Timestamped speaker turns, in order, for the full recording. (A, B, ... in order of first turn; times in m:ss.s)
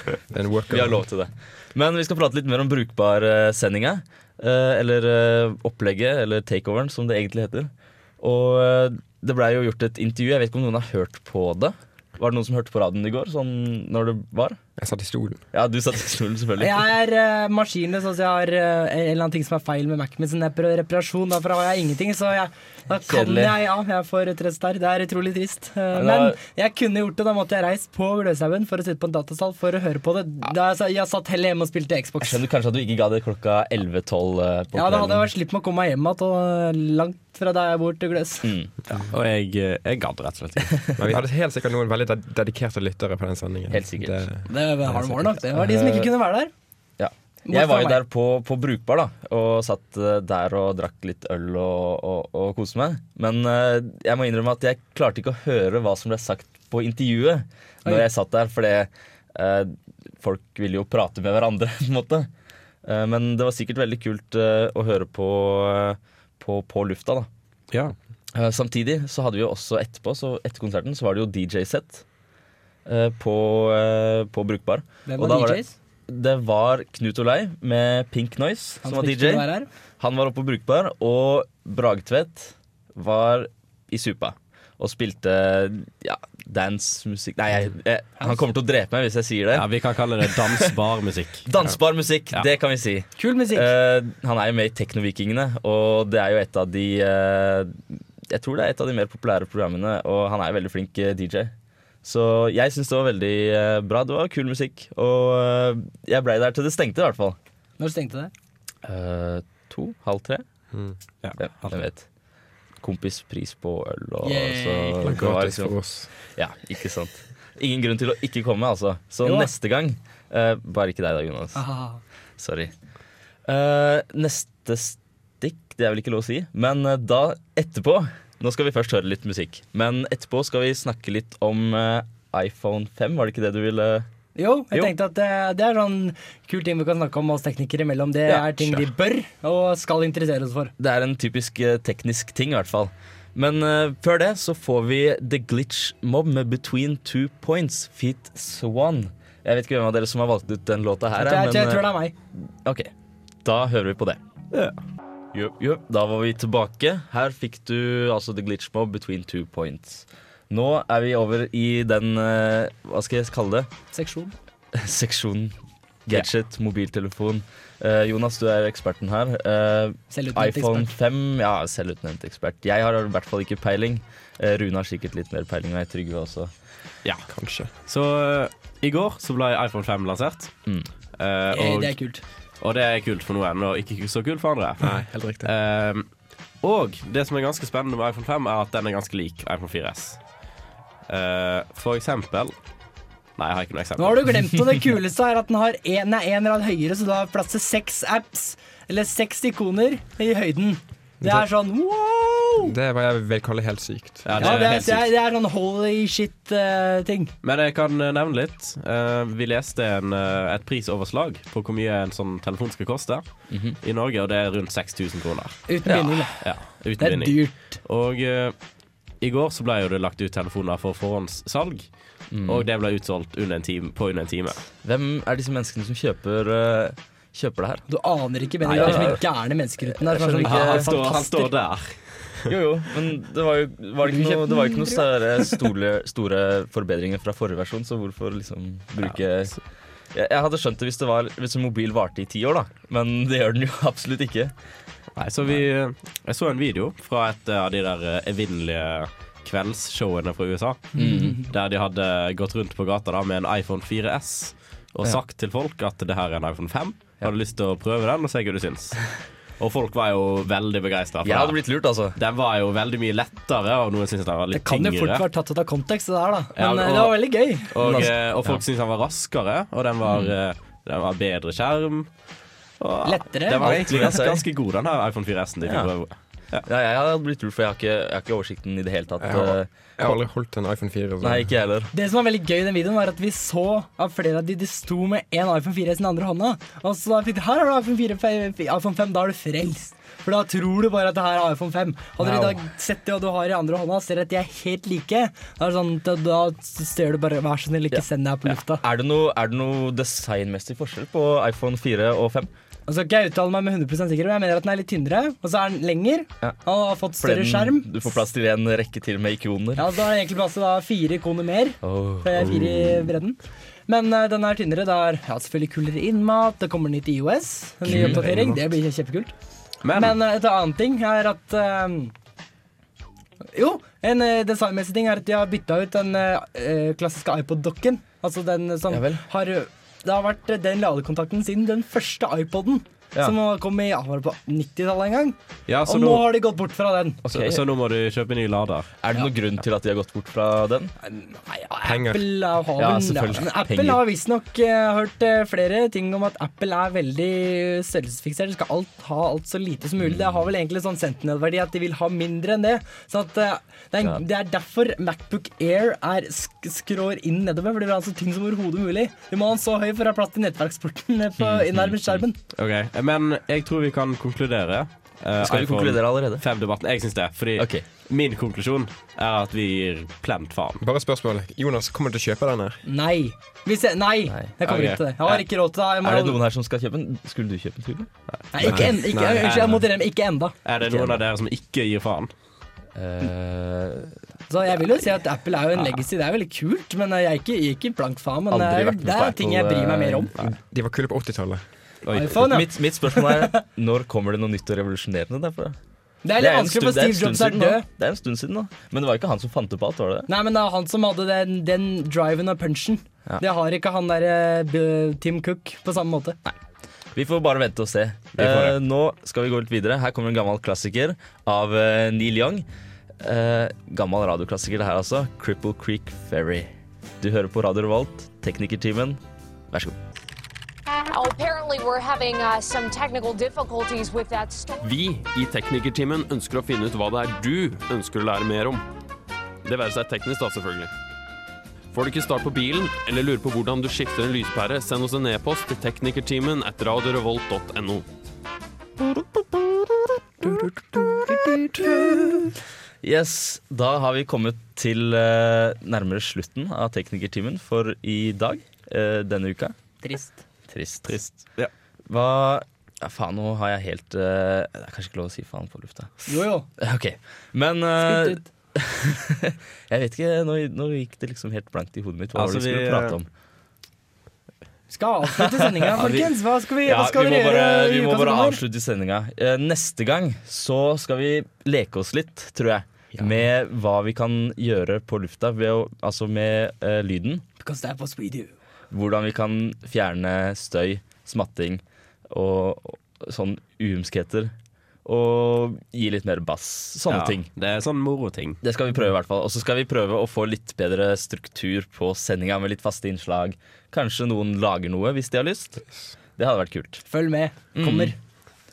0:00.3-0:01.0 A
0:00.7-0:14.6 B
0:14.8-0:15.4 A
0:15.5-0:16.8 B
0:16.6-0:32.4 C
0:23.1-0:23.6 B
0:25.9-0:26.4 B
0:32.2-0:35.3 B
0:34.7-0:38.5 C
0:38.4-0:38.7 B
0:38.9-0:40.8 D
0:41.0-0:44.5 A
0:43.7-0:44.2 B
0:44.5-0:46.5 C
0:45.5-0:46.1 B
0:47.0-1:02.3 B
0:47.5-0:48.0 C
1:02.8-1:07.3 B
1:08.3-1:12.0 B
1:12.8-1:29.6 B
1:15.0-1:15.7 C
1:18.8-1:19.7 C
1:29.5-1:31.4 D
1:30.2-1:30.6 B
1:31.4-1:41.5 B
1:33.2-1:33.7 C
1:42.0-1:47.4 B
1:47.8-1:48.3 C
1:48.8-1:50.4 B
1:51.2-1:51.8 D
1:51.4-1:52.0 B
1:52.8-1:55.7 B
1:54.2-1:55.2 C
1:55.0-1:56.1 A
1:56.3-2:01.6 B
1:59.2-1:59.5 C
2:01.5-2:02.0 C
2:02.4-2:02.7 B
2:03.4-2:14.1 B
2:14.4-2:20.7 C
2:18.3-2:18.8 B
2:20.8-2:32.9 B
2:31.2-2:32.1 C
2:33.4-2:34.2 B
2:35.3-2:43.7 B
2:43.9-2:44.3 C
2:44.7-2:56.5 B
2:50.1-2:50.9 C
2:57.3-2:57.7 A
2:57.8-3:00.5 D
3:01.2-3:01.9 D
3:01.5-3:02.2 C
3:02.6-3:06.1 D
3:04.8-3:05.5 A
3:06.6-3:10.2 D
3:11.1-3:12.5 D
3:13.4-3:14.4 D
3:14.0-3:22.7 C
3:21.2-3:21.4 A
3:22.6-3:24.3 A
3:24.2-3:25.1 D
3:24.4-3:27.3 C
3:27.4-3:35.6 D
3:33.5-3:33.8 B
3:35.7-3:37.8 C
3:35.8-3:36.3 B
3:36.4-3:38.5 D
3:39.2-3:41.9 D
3:42.3-3:42.7 B
3:42.4-3:44.6 D
3:44.8-3:47.8 B
3:47.9-3:51.5 C
3:48.6-3:49.2 D
3:48.7-3:49.2 B
3:49.9-3:50.9 B
3:50.4-3:52.0 D
3:52.4-3:59.6 B
3:54.0-3:55.6 C
4:00.1-4:04.5 B
4:05.2-4:21.6 D
4:10.9-4:11.4 C
4:11.0-4:11.4 B
4:21.2-4:22.2 B
4:22.2-4:25.2 D
4:24.5-4:27.7 C
4:26.6-4:32.1 D
4:27.8-4:28.6 B
4:30.0-4:30.3 B
4:32.8-4:36.6 D
4:33.0-4:34.0 C
4:33.5-4:34.4 B
4:35.6-4:35.9 B
4:36.6-4:40.1 B
4:39.2-4:41.5 A
4:41.2-4:41.9 B
4:41.9-4:58.8 C
4:52.2-4:52.6 B
4:58.8-5:02.5 B
5:02.9-5:08.1 C
5:07.2-5:09.9 B
5:09.8-5:19.3 C
5:11.8-5:13.1 B
5:17.8-5:18.2 B
5:17.9-5:18.6 D
5:19.8-5:20.2 D
5:19.9-5:22.1 C
5:23.5-5:37.2 C
5:28.9-5:29.2 B
5:35.7-5:36.2 D
5:37.2-5:37.6 B
5:37.3-5:38.9 D
5:39.0-5:40.9 B
5:41.0-6:02.4 C
5:41.8-5:42.4 A
5:42.8-5:44.0 B
5:50.0-5:50.3 B
6:01.4-6:02.2 B
6:02.5-6:10.8 D
6:05.4-6:06.4 B
6:07.6-6:07.8 B
6:10.8-6:12.8 A
6:12.8-6:16.4 C
6:14.3-6:14.5 B
6:14.6-6:15.0 D
6:16.0-6:18.1 B
6:18.5-6:20.5 C
6:18.6-6:19.8 D
6:18.6-6:19.8 A
6:20.6-6:22.3 D
6:20.8-6:21.2 B
6:23.0-6:24.1 B
6:24.5-6:30.3 C
6:28.5-6:30.4 B
6:30.4-6:31.6 A
6:32.0-6:32.6 D
6:32.1-6:33.6 C
6:32.3-6:35.8 B
6:36.2-6:37.8 C
6:36.4-6:40.3 B
6:40.3-6:46.4 C
6:47.1-6:52.6 B
6:48.4-6:48.8 D
6:53.2-6:56.7 B
6:57.2-7:00.0 B
7:01.1-7:04.8 E
7:04.8-7:08.8 F
7:09.6-7:10.9 F
7:11.9-7:18.1 F
7:19.0-7:29.7 B
7:20.4-7:22.4 C
7:30.0-7:30.4 C
7:30.7-7:31.2 B
7:31.1-7:31.7 D
7:32.1-7:43.3 B
7:36.3-7:36.7 C
7:38.0-7:38.4 C
7:42.3-7:43.2 D
7:44.9-7:48.6 C
7:45.5-7:46.3 B
7:46.0-7:46.3 D
7:46.8-7:57.4 B
7:57.6-7:58.5 C
7:58.9-8:04.5 B
8:05.0-8:07.5 B
8:07.1-8:08.6 D
8:08.6-8:15.8 B
8:16.4-8:17.0 B
8:17.1-8:18.2 C
8:17.7-8:18.1 B